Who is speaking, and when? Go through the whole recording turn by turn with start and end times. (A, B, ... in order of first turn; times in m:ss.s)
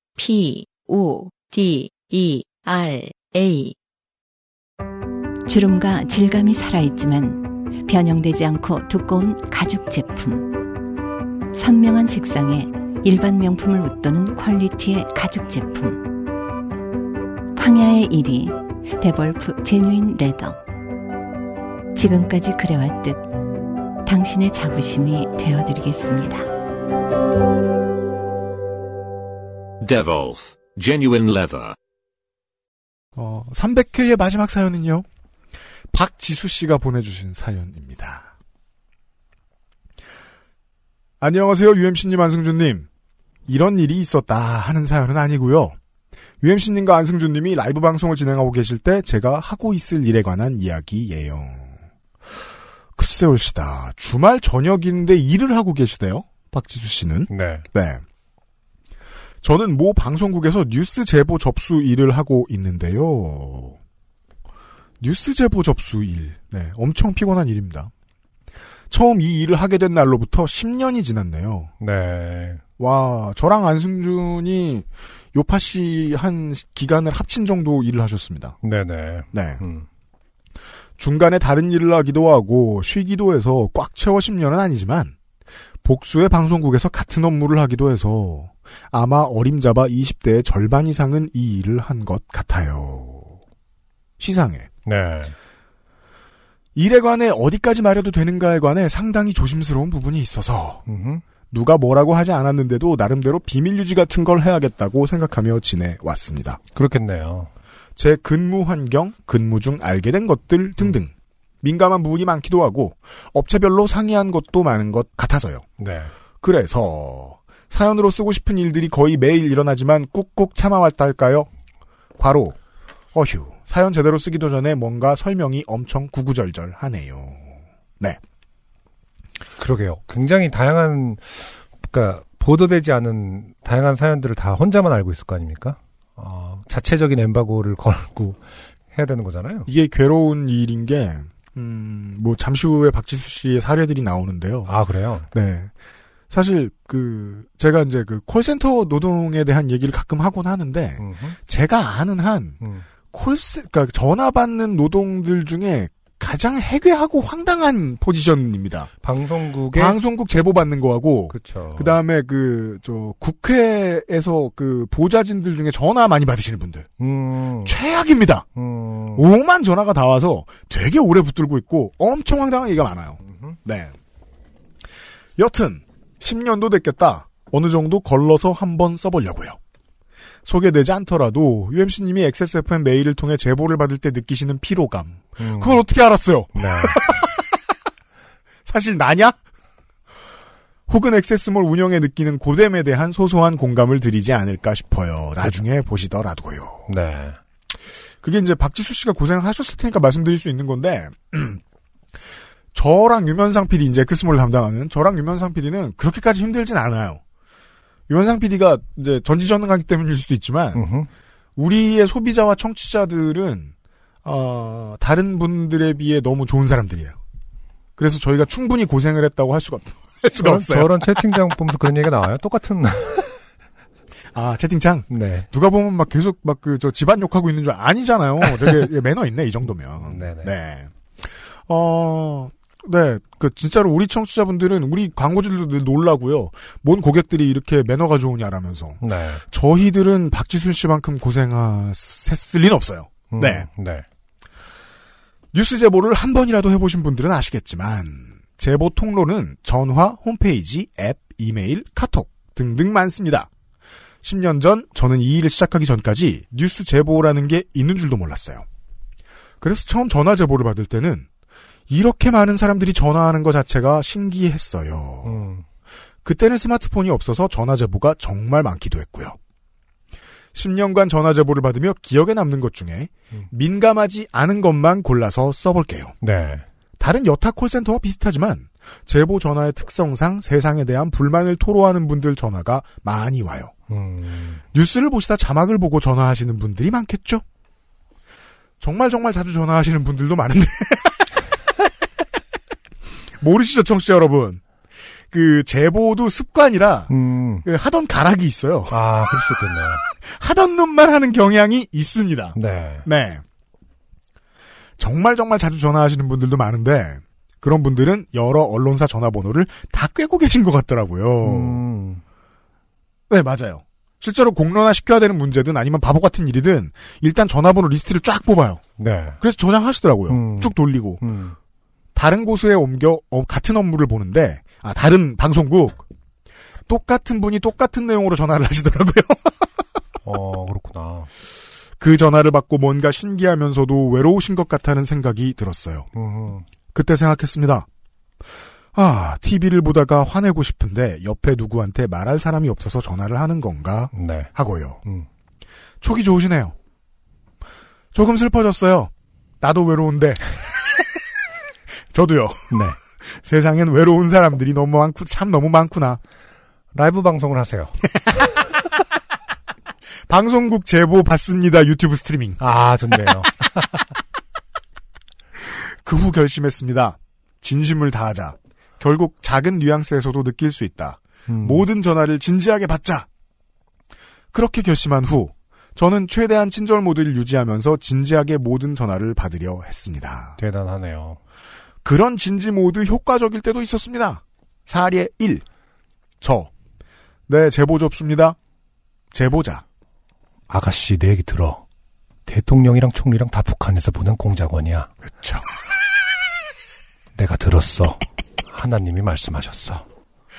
0:00.2-0:03.8 A
0:05.5-0:10.6 B
0:11.5-0:16.1 B
0:17.6-0:20.6 B
0:22.0-0:23.2 B
0:24.0-0:26.5 B
0:29.8-0:31.8 C
0:33.2-0:35.1 D
0:35.9-0:38.3 D
0:41.2-0:42.9 D
0:43.5-0:45.8 D
0:46.4-0:51.8 D
0:53.0-0:58.0 D
0:57.3-0:57.6 E
0:59.4-1:03.8 D
1:05.0-1:07.9 D
1:08.9-1:11.7 D
1:11.8-1:12.6 E
1:12.8-1:18.6 D
1:18.6-1:19.9 E
1:19.3-1:19.6 D
1:21.0-1:25.2 D
1:25.8-1:33.4 D
1:34.2-1:34.7 D
1:34.9-1:35.4 E
1:36.8-1:40.8 D
1:40.9-1:41.2 E
1:41.5-1:46.6 D
1:46.8-1:47.5 E
1:48.0-1:51.1 D
1:51.6-1:55.6 D
1:55.8-1:56.1 E
1:56.4-2:01.5 D
2:02.2-2:02.6 D
2:03.1-2:08.2 D
2:09.6-2:18.4 E
2:18.9-2:19.7 E
2:19.7-2:24.7 D
2:24.7-2:25.3 E
2:25.3-2:25.7 D
2:26.3-2:32.6 D
2:31.0-2:31.4 E
2:33.1-2:38.9 D
2:39.0-2:40.0 E
2:39.7-2:46.9 D
2:41.3-2:42.0 E
2:47.0-2:47.8 E
2:47.6-2:48.4 D
2:48.6-2:49.3 E
2:49.2-2:53.9 D
2:53.3-2:53.6 E
2:55.4-2:59.6 D
3:00.4-3:07.5 D
3:05.4-3:05.8 E
3:06.6-3:07.0 E
3:08.7-3:09.4 D
3:10.9-3:16.8 D
3:16.9-3:17.4 E
3:18.2-3:21.6 D
3:22.7-3:27.2 D
3:28.1-3:30.8 D
3:30.7-3:31.1 E
3:31.6-3:33.7 D
3:34.2-3:37.2 D
3:38.0-3:41.2 D
3:40.3-3:43.4 E
3:44.3-3:50.9 D
3:45.1-3:45.5 E
3:50.0-3:50.5 E
3:51.7-4:03.7 D
3:59.0-3:59.4 E
4:03.3-4:04.1 E
4:05.5-4:13.5 D
4:14.2-4:18.6 D
4:19.6-4:21.3 D
4:21.9-4:25.4 D
4:25.2-4:25.6 E
4:26.2-4:29.4 D
4:30.5-4:36.1 D
4:36.2-4:36.6 E
4:37.0-4:43.7 D
4:43.9-4:44.6 E
4:44.7-4:47.4 D
4:48.8-4:51.4 D
4:53.4-4:54.6 D
4:55.3-4:57.1 D
4:57.1-4:57.7 E
4:57.6-4:59.0 D
4:58.9-5:00.0 E
5:00.2-5:03.4 D
5:02.6-5:03.1 E
5:05.0-5:11.8 D
5:11.4-5:12.2 E
5:13.3-5:18.8 D
5:19.0-5:19.4 E
5:19.4-5:21.2 D
5:20.3-5:21.6 E
5:22.2-5:26.0 D
5:26.9-5:29.7 D
5:30.2-5:31.3 E
5:32.0-5:36.1 D
5:36.2-5:36.7 E
5:36.9-5:37.9 D
5:38.9-5:45.0 D
5:44.1-5:44.5 E
5:46.0-5:46.8 D
5:48.1-5:51.0 D
5:52.1-5:56.2 D
5:52.7-5:53.0 E
5:56.9-5:58.0 E
6:00.3-6:02.6 D
6:02.6-6:04.0 E
6:05.7-6:13.3 D
6:11.5-6:11.9 E
6:14.5-6:20.6 D
6:20.6-6:21.4 E
6:22.0-6:25.6 D
6:26.4-6:26.7 D
6:27.5-6:28.6 D
6:29.3-6:29.8 D
6:30.7-6:31.8 E
6:32.5-6:35.1 E
6:35.3-6:35.6 D
6:37.4-6:40.0 E